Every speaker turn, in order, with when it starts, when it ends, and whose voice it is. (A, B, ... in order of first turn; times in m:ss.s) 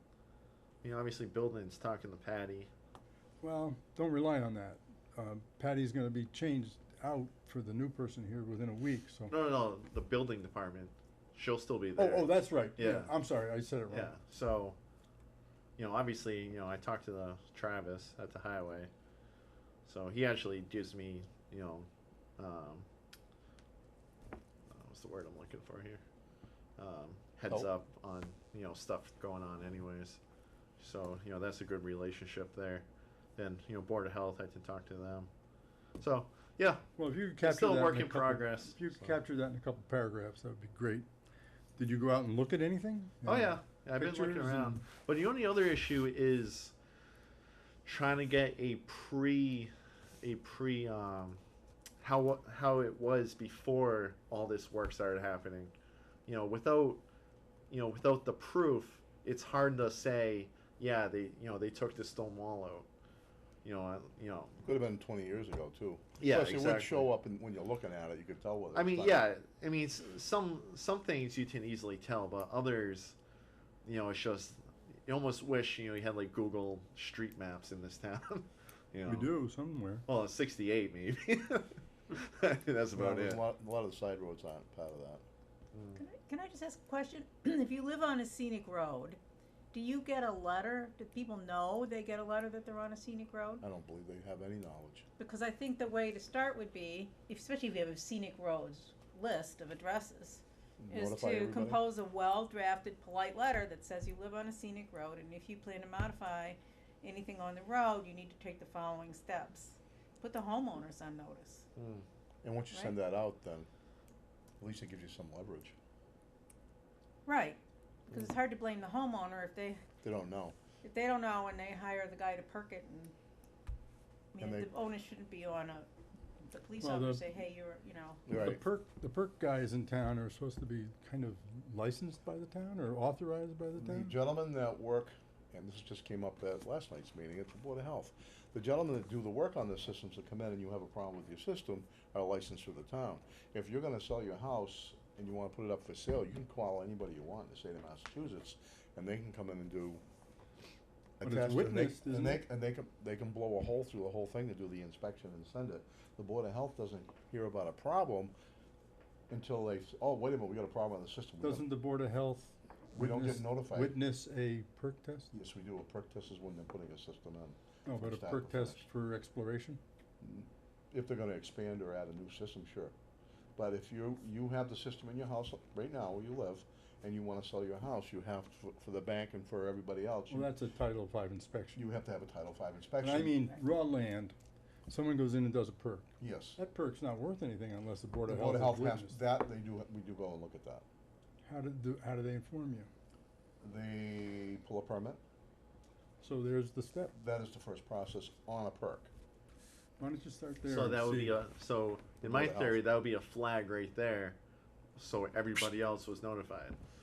0:00.8-0:02.7 A
0:03.4-0:09.3 B
0:09.3-0:13.2 A
0:12.0-0:14.1 B
0:13.9-0:14.8 A
0:15.8-0:18.9 A
0:19.9-0:22.9 A
0:24.7-0:26.0 A
0:26.8-0:30.2 A
0:30.8-0:35.3 A
0:36.0-0:36.9 A
0:37.0-0:41.1 B
0:37.4-0:39.2 A
0:41.8-0:44.8 B
0:43.2-0:46.8 A
0:47.8-0:51.4 A
0:52.0-0:55.8 A
0:56.3-0:57.0 A
0:57.7-1:02.9 A
1:03.6-1:04.6 A
1:04.6-1:09.2 C
1:06.2-1:07.1 A
1:08.7-1:13.2 A
1:13.8-1:19.4 A
1:19.1-1:20.1 B
1:20.1-1:23.4 A
1:22.9-1:25.2 C
1:25.7-1:26.0 A
1:26.0-1:29.2 D
1:29.7-1:33.6 D
1:33.6-1:35.0 C
1:35.2-1:51.7 D
1:40.8-1:41.8 C
1:51.8-1:52.0 A
1:52.4-1:53.7 C
1:54.6-1:55.8 C
1:57.3-1:59.8 D
2:00.0-2:00.6 C
2:00.8-2:03.1 D
2:04.3-2:05.9 D
2:04.4-2:04.7 C
2:06.5-2:08.2 D
2:06.8-2:07.3 B
2:08.3-2:08.6 C
2:08.3-2:14.1 B
2:13.8-2:30.0 C
2:31.2-2:38.3 C
2:31.2-2:32.4 B
2:39.3-2:41.7 C
2:41.4-2:45.3 B
2:43.0-2:44.0 C
2:45.3-2:48.8 C
2:47.9-2:49.8 B
2:50.2-2:52.9 C
2:53.6-3:00.5 C
3:00.3-3:01.8 B
3:01.8-3:03.6 C
3:03.0-3:04.4 B
3:04.9-3:09.2 B
3:06.2-3:06.6 C
3:08.3-3:10.8 C
3:11.4-3:12.9 B
3:13.6-3:15.2 C
3:16.2-3:17.1 B
3:17.1-3:19.1 C
3:20.0-3:21.4 B
3:20.7-3:24.4 A
3:22.2-3:22.8 C
3:25.0-3:26.8 A